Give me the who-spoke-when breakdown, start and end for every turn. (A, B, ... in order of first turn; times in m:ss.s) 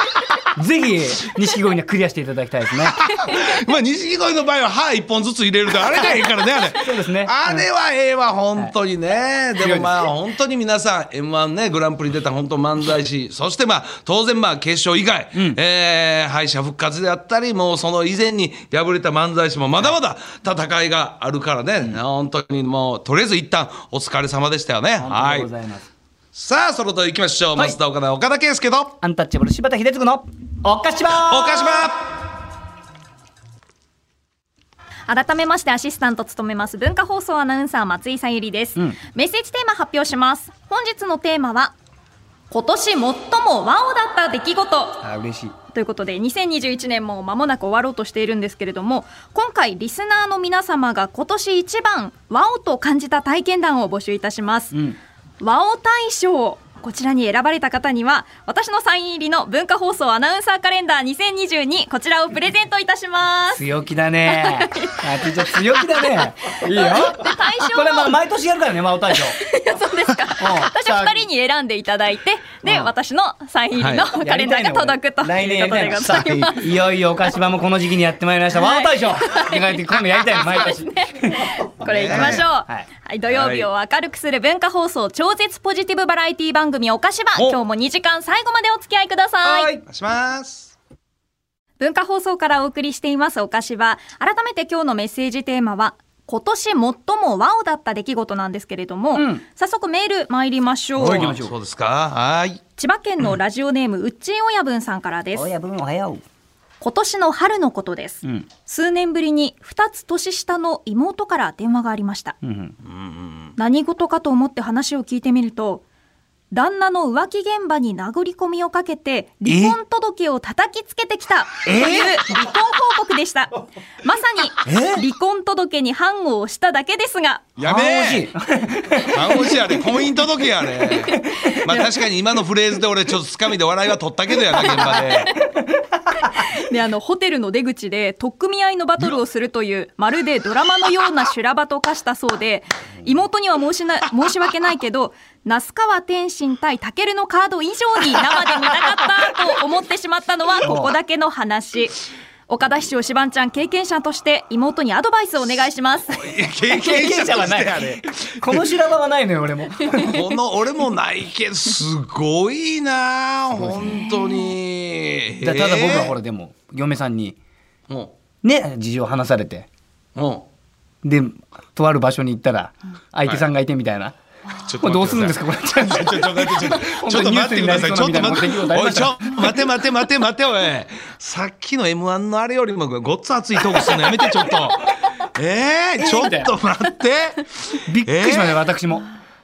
0:00.5-0:03.0 A
0:03.0-0:25.5 B
0:06.8-0:07.7 A
0:09.6-0:10.0 A
0:25.0-0:25.9 A
0:26.3-0:29.0 B
0:29.0-0:31.8 A
0:31.1-0:32.1 B
0:35.1-0:41.7 C
0:42.5-0:45.0 C
0:45.0-0:45.5 A
0:45.7-0:54.7 C
0:55.4-1:03.6 C
1:03.5-1:09.4 A
1:04.3-1:05.0 C
1:05.5-1:05.9 C
1:06.7-1:08.2 C
1:09.4-1:16.8 C
1:10.4-1:11.2 A
1:12.6-1:12.9 A
1:13.8-1:14.0 B
1:14.2-1:21.5 A
1:18.5-1:29.8 C
1:21.8-1:22.5 B
1:22.0-1:22.9 A
1:23.3-1:23.7 B
1:29.4-1:30.8 B
1:31.8-1:41.4 C
1:39.1-1:39.4 A
1:41.0-1:41.5 A
1:41.0-1:42.6 B
1:42.8-1:45.5 C
1:45.4-1:46.2 A
1:46.8-1:52.4 C
1:52.4-1:52.8 A
1:52.8-1:53.5 B
1:53.6-1:55.8 C
1:56.5-2:07.5 C
1:59.5-1:59.8 A
2:01.6-2:02.2 A
2:04.6-2:05.0 A
2:07.6-2:08.3 B
2:07.6-2:09.5 A
2:09.1-2:15.3 B
2:10.9-2:11.9 C
2:14.6-2:15.3 C
2:16.3-2:32.0 C
2:30.6-2:31.0 A
2:32.5-2:36.1 C
2:36.1-2:38.6 B
2:36.7-2:40.2 A
2:39.9-2:46.2 B
2:43.6-2:44.1 A
2:44.0-2:44.5 C
2:45.4-2:47.4 A
2:47.9-2:48.1 B
2:48.4-2:49.7 A
2:50.2-2:50.5 B
2:51.0-2:54.1 A
2:54.6-3:08.6 B
2:54.8-2:59.4 A
3:06.0-3:06.5 A
3:07.9-3:09.1 A